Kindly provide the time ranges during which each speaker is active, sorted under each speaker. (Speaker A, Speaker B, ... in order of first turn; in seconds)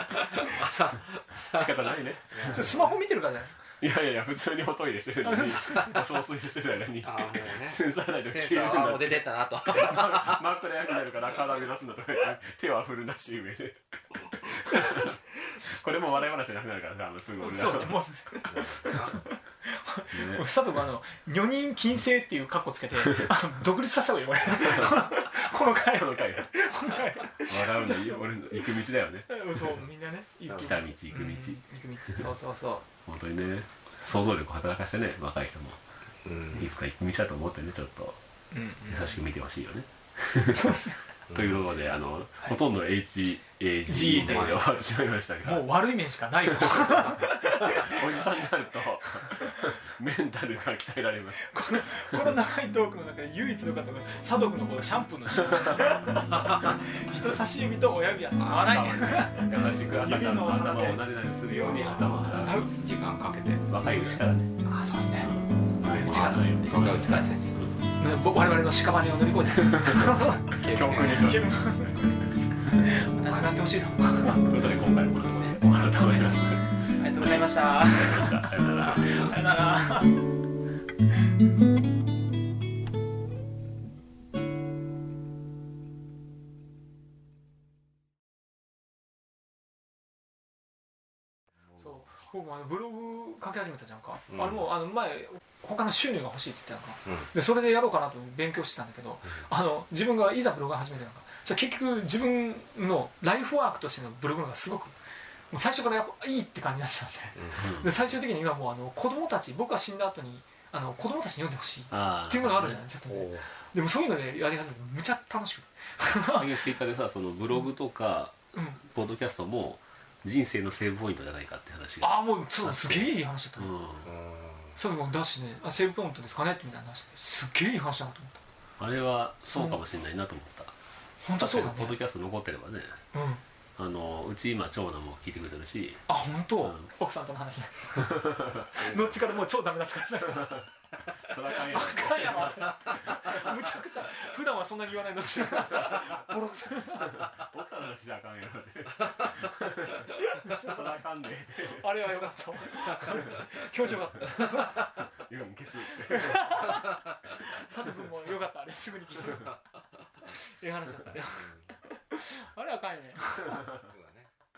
Speaker A: 0.4-1.7, 2.3-3.0, 7.0-10.4, 18.5-19.2, 30.5-30.8, 36.2-36.7, 41.3-41.6, 44.2-44.6, 58.4-58.7, 62.0-64.0, 65.8-67.6, 70.2-71.3, 94.3-94.7, 107.3-107.7, 113.1-113.5, 124.0-124.8, 161.2-161.7, 163.6-164.3
Speaker B: 1.5-2.8, 3.8-18.0, 20.1-20.5, 23.0-23.3, 24.6-29.8, 30.6-31.6, 33.1-35.8, 36.5-38.2, 38.9-45.7, 46.5-52.4, 58.4-62.8, 63.7-64.5, 65.2-67.8, 69.6-71.5, 74.2-79.4, 107.6-107.9, 111.9-112.8, 116.2-124.1, 128.8-130.7, 131.4-133.0, 133.8-136.0, 136.6-136.9, 140.3-140.7, 141.2-143.6, 147.1-152.3, 152.9-153.4, 154.3-156.9
Speaker C: 2.5-3.5, 5.2-6.0, 14.7-15.2, 17.4-32.9, 38.5-39.2, 40.4-41.0, 43.9-44.6, 45.4-48.4, 49.1-49.5, 51.4-62.7, 63.9-66.5, 68.0-75.5, 76.9-80.3, 91.8-105.0, 105.5-116.5, 118.5-118.8, 122.0-123.7, 124.8-128.4, 129.5-129.8, 131.2-132.0, 133.1-133.4, 136.1-140.7, 141.5-147.3, 150.2-151.0, 151.6-154.9, 155.9-159.6, 160.2-163.7